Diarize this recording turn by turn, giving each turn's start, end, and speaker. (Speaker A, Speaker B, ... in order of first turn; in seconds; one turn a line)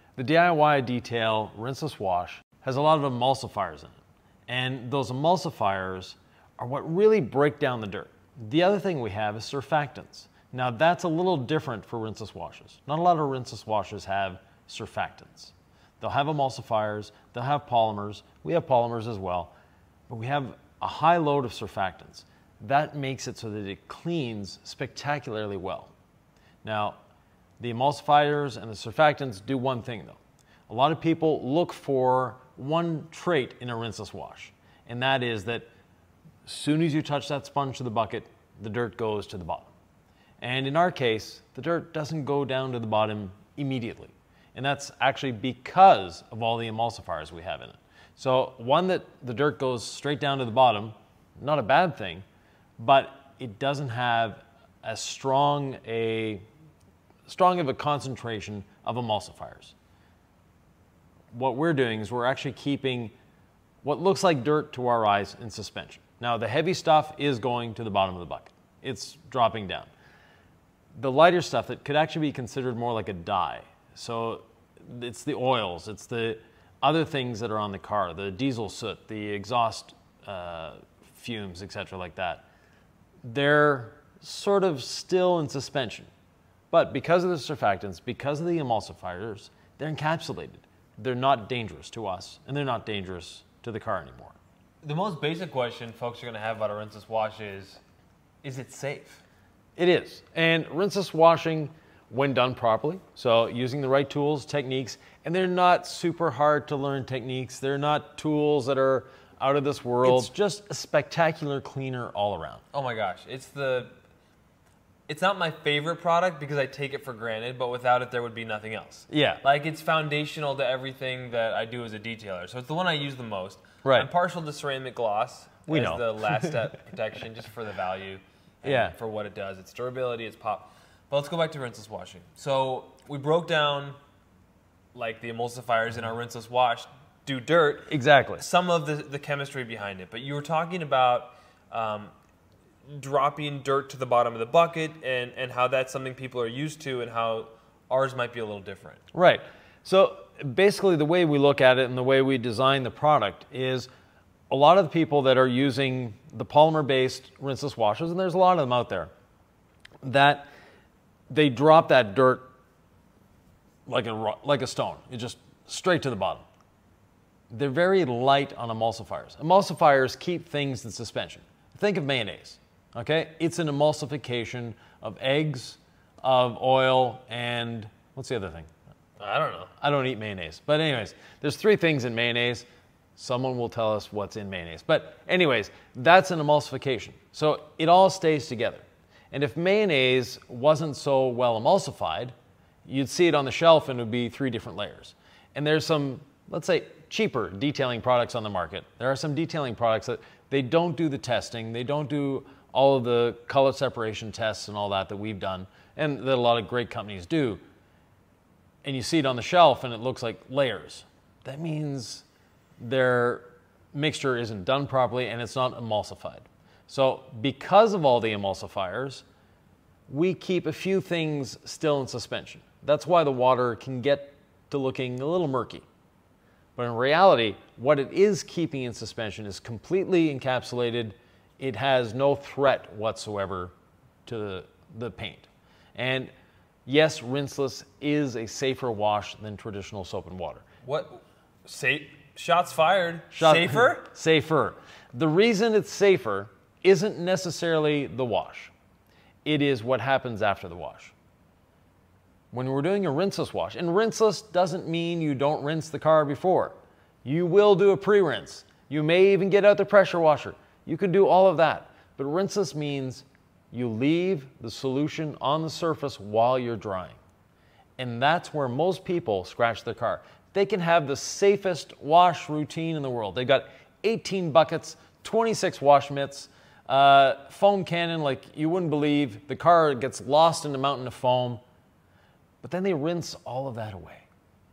Speaker A: 0.2-4.0
Speaker A: 4.5-19.5
Speaker A: 20.1-25.9
Speaker A: 26.6-27.0
Speaker A: 27.6-35.7
Speaker A: 36.4-39.7
Speaker A: 40.4-52.2
Speaker A: 52.8-56.4
Speaker A: 57.3-59.8
Speaker A: 61.3-63.1
Speaker A: 63.8-69.9
Speaker A: 71.0-82.4
Speaker A: 83.2-86.1
Speaker A: 86.7-94.4
Speaker B: 94.8-97.8
Speaker B: 98.4-99.2
Speaker A: 99.8-112.6
Speaker B: 110.0-110.3
Speaker B: 112.7-113.9
Speaker B: 115.1-134.0
Speaker A: 119.1-119.4
Speaker A: 123.8-124.1
Speaker A: 125.7-126.5
Speaker A: 128.6-128.9
Speaker B: 134.9-142.1
Speaker A: 137.9-138.4
Speaker B: 142.9-149.0
Speaker A: 149.1-153.9
Speaker A: 154.5-159.1
Speaker A: 160.0-160.5
Speaker A: 161.3-162.5
Speaker A: 163.9-166.4
Speaker A: 167.5-178.7
Speaker B: 179.2-179.7
Speaker A: 179.8-182.6
Speaker A: 183.2-192.3
Speaker A: 192.9-207.6
Speaker A: 208.8-212.2
Speaker A: 212.8-219.2
Speaker A: 220.1-225.8
Speaker A: 226.8-233.7
Speaker A: 234.2-236.3
Speaker A: 236.9-240.6
Speaker B: 240.8-244.1
Speaker A: 243.3-248.7
Speaker A: 249.4-251.1
Speaker A: 252.5-267.2
Speaker A: 268.0-281.6
Speaker A: 282.6-284.2